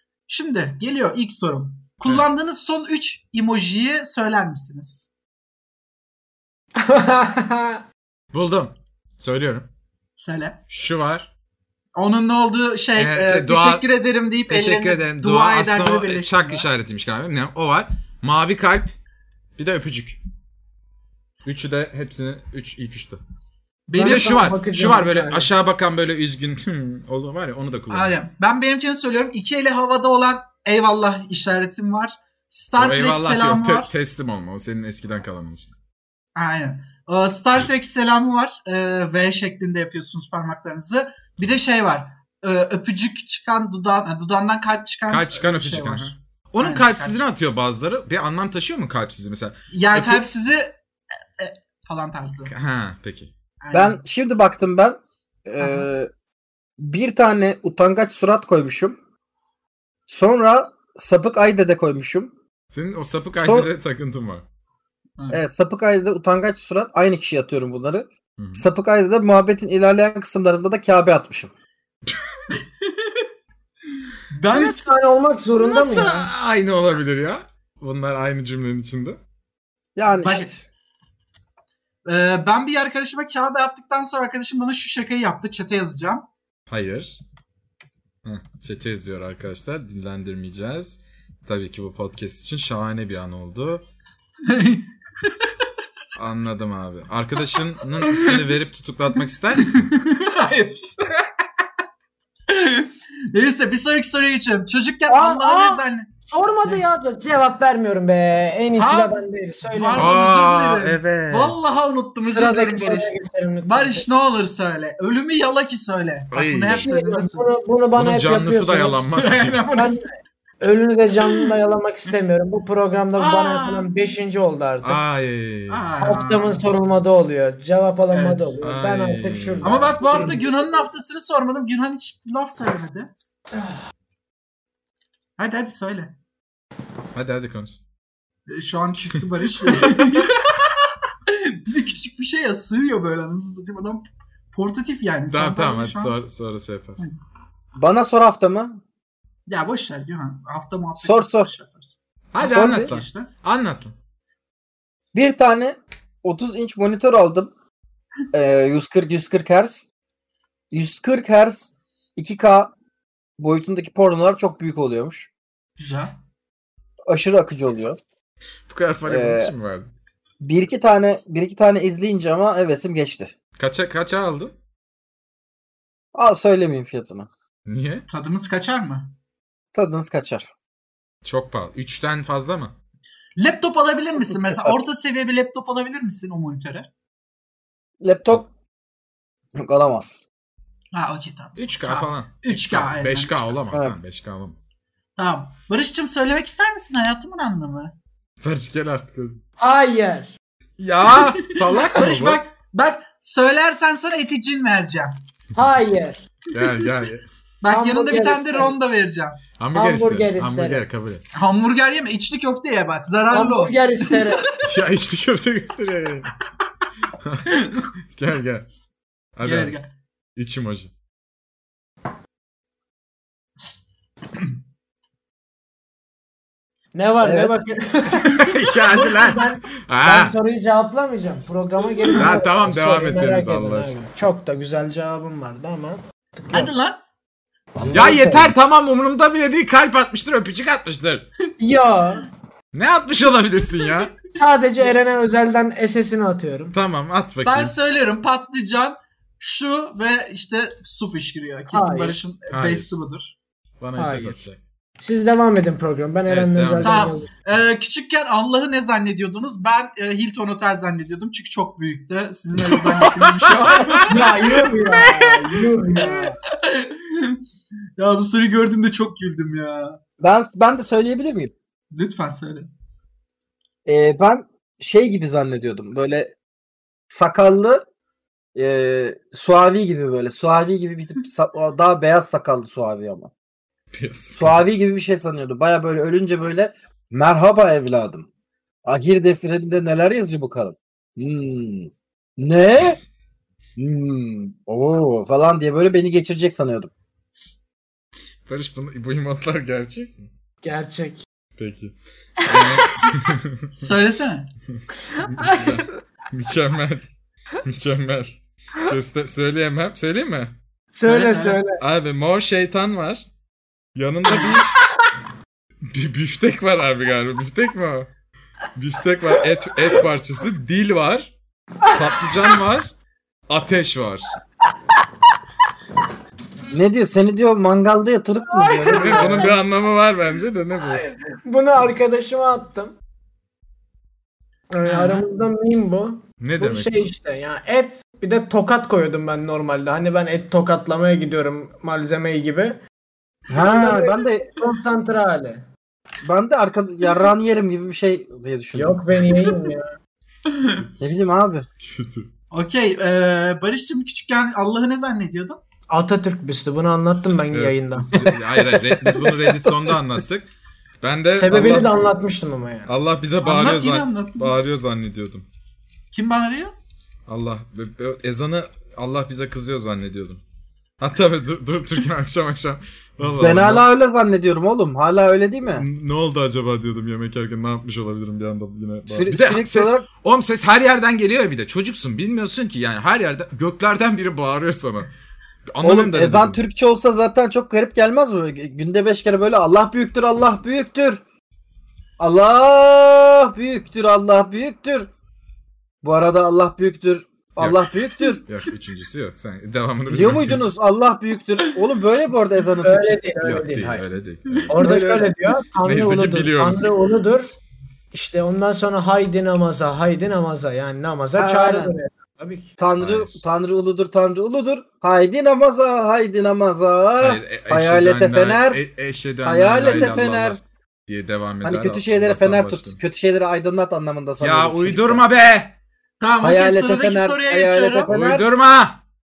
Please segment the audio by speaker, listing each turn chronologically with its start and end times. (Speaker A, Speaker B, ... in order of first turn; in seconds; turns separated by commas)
Speaker A: 0.3-5.1, Speaker B: 6.8-7.8, Speaker C: 8.3-9.7, Speaker A: 10.2-10.6, Speaker C: 10.7-11.3, Speaker A: 11.9-16.7, Speaker C: 12.9-13.8, Speaker C: 14.5-18.9, Speaker C: 19.6-20.2, Speaker C: 21.4-23.2, Speaker A: 23.9-24.5, Speaker B: 23.9-25.5, Speaker C: 24.0-28.2, Speaker A: 27.9-33.9, Speaker C: 32.8-35.7, Speaker A: 36.4-47.2, Speaker C: 45.1-50.2, Speaker A: 49.7-50.8, Speaker A: 51.4-52.5, Speaker C: 52.5-53.3, Speaker A: 53.6-54.0, Speaker D: 53.7-56.1, Speaker A: 55.6-55.9, Speaker D: 56.8-59.0, Speaker D: 60.1-62.3, Speaker C: 62.7-64.5, Speaker D: 63.3-63.7, Speaker D: 65.3-71.5, Speaker C: 68.4-68.7, Speaker A: 72.8-73.2, Speaker A: 74.3-74.9, Speaker B: 74.5-76.3, Speaker C: 75.6-79.2, Speaker D: 80.0-80.6, Speaker A: 80.1-80.5, Speaker A: 82.0-86.2, Speaker C: 86.7-87.2, Speaker C: 88.2-93.8, Speaker A: 94.4-95.5, Speaker C: 96.1-99.9, Speaker A: 98.0-98.5, Speaker A: 99.7-101.3, Speaker A: 102.5-106.1, Speaker B: 105.1-110.1, Speaker A: 108.7-113.1, Speaker C: 109.9-111.6, Speaker B: 112.2-114.1, Speaker A: 113.6-117.5, Speaker C: 116.3-116.9, Speaker B: 116.8-119.0, Speaker C: 117.9-119.6, Speaker A: 119.2-120.0, Speaker B: 119.7-125.0, Speaker A: 123.1-123.9, Speaker C: 124.8-125.9, Speaker A: 125.7-126.7, Speaker B: 126.0-130.9, Speaker A: 128.1-128.5, Speaker C: 128.6-130.0, Speaker A: 129.6-133.1, Speaker A: 135.4-136.1, Speaker C: 137.1-137.8, Speaker A: 138.5-140.7, Speaker C: 139.7-139.9, Speaker A: 141.3-146.1, Speaker C: 145.3-147.0, Speaker D: 147.7-148.8, Speaker A: 149.5-153.3, Speaker D: 151.0-151.5, Speaker C: 152.3-153.9, Speaker D: 152.4-152.9, Speaker D: 155.1-157.5, Speaker D: 158.3-159.8, Speaker D: 160.7-162.7, Speaker D: 163.4-165.3, Speaker A: 165.8-166.2, Speaker D: 167.1-168.0, Speaker C: 168.7-169.9, Speaker D: 169.1-169.5, Speaker D: 170.4-173.3, Speaker C: 173.6-174.6, Speaker D: 176.1-177.3, Speaker C: 177.7-178.1, Speaker A: 178.1-179.1, Speaker D: 179.7-180.5, Speaker C: 181.2-182.7, Speaker A: 183.4-186.9, Speaker D: 184.2-184.8, Speaker D: 188.0-188.5, Speaker D: 189.6-190.2, Speaker A: 190.9-193.5, Speaker C: 191.6-194.6, Speaker D: 193.7-194.0, Speaker A: 195.2-197.9, Speaker C: 198.4-199.4, Speaker B: 199.6-200.3, Speaker C: 200.8-202.4, Speaker A: 201.1-205.1, Speaker B: 205.5-206.2, Speaker C: 206.5-207.2, Speaker A: 207.6-209.4, Speaker B: 207.7-208.7, Speaker C: 209.6-211.2, Speaker B: 209.7-210.8, Speaker A: 211.3-214.5, Speaker B: 213.3-214.5, Speaker C: 214.6-216.3, Speaker C: 217.2-218.7, Speaker C: 219.3-219.8, Speaker A: 219.4-219.9, Speaker C: 220.3-220.9, Speaker B: 226.9-236.7, Speaker D: 227.2-227.6, Speaker C: 228.2-230.3, Speaker C: 232.1-233.9, Speaker A: 236.5-237.0, Speaker B: 237.8-238.5, Speaker C: 237.9-241.2, Speaker B: 241.6-242.3, Speaker C: 242.7-244.1, Speaker B: 244.3-246.7, Speaker C: 246.7-247.7, Speaker A: 247.4-253.3, Speaker B: 251.7-252.2, Speaker C: 252.5-252.9, Speaker C: 253.8-254.6, Speaker B: 253.9-254.4, Speaker B: 255.0-257.3, Speaker C: 256.3-257.0, Speaker A: 256.8-265.3, Speaker C: 263.7-264.1, Speaker B: 264.1-266.4, Speaker A: 265.9-267.4, Speaker D: 266.0-266.2, Speaker A: 268.0-270.0, Speaker D: 270.2-271.5, Speaker A: 271.9-272.7, Speaker D: 273.8-276.3, Speaker D: 277.1-277.8, Speaker D: 278.6-283.3, Speaker C: 283.9-284.6, Speaker D: 284.3-288.3, Speaker D: 288.9-293.0, Speaker D: 293.8-296.9, Speaker C: 298.5-300.3, Speaker B: 300.6-301.2, Speaker C: 301.6-303.9, Speaker A: 303.7-304.5, Speaker B: 305.2-305.7, Speaker C: 305.2-307.1, Speaker C: 307.6-310.5, Speaker B: 310.9-311.8, Speaker A: 311.0-311.6, Speaker C: 311.8-313.2, Speaker C: 313.9-314.7, Speaker C: 315.9-318.1, Speaker C: 318.7-321.3, Speaker C: 321.9-322.9, Speaker C: 323.5-324.3, Speaker D: 326.7-329.5, Speaker B: 328.5-329.5, Speaker C: 328.9-331.0, Speaker B: 331.0-332.9, Speaker B: 334.7-342.8, Speaker A: 334.8-335.2, Speaker C: 336.4-337.0, Speaker D: 343.5-344.6, Speaker B: 343.5-345.6, Speaker D: 346.2-349.3, Speaker B: 348.7-349.9, Speaker A: 350.5-350.8, Speaker D: 351.0-351.6, Speaker C: 351.8-352.3, Speaker A: 352.5-355.6, Speaker B: 355.9-358.3, Speaker C: 357.5-360.5, Speaker C: 361.0-362.1, Speaker B: 361.3-362.9, Speaker C: 362.9-365.4, Speaker A: 363.4-364.5, Speaker A: 366.1-366.7, Speaker C: 367.3-370.4, Speaker C: 371.0-373.8, Speaker D: 373.4-375.9, Speaker C: 375.7-385.1, Speaker D: 379.1-380.1, Speaker C: 385.7-386.6, Speaker D: 385.8-391.2, Speaker D: 392.2-395.1, Speaker D: 396.0-398.4, Speaker C: 397.6-400.7, Speaker D: 400.1-404.0, Speaker B: 402.8-404.0, Speaker C: 403.4-404.8, Speaker B: 404.7-407.5, Speaker D: 404.8-405.3, Speaker C: 405.8-406.9, Speaker B: 408.1-412.7, Speaker D: 411.4-411.9, Speaker D: 412.8-418.8, Speaker C: 413.0-413.4, Speaker C: 417.2-423.0, Speaker D: 419.4-420.6, Speaker D: 421.6-425.2, Speaker C: 424.4-425.7, Speaker A: 426.2-428.1, Speaker D: 426.4-428.5, Speaker C: 428.1-429.0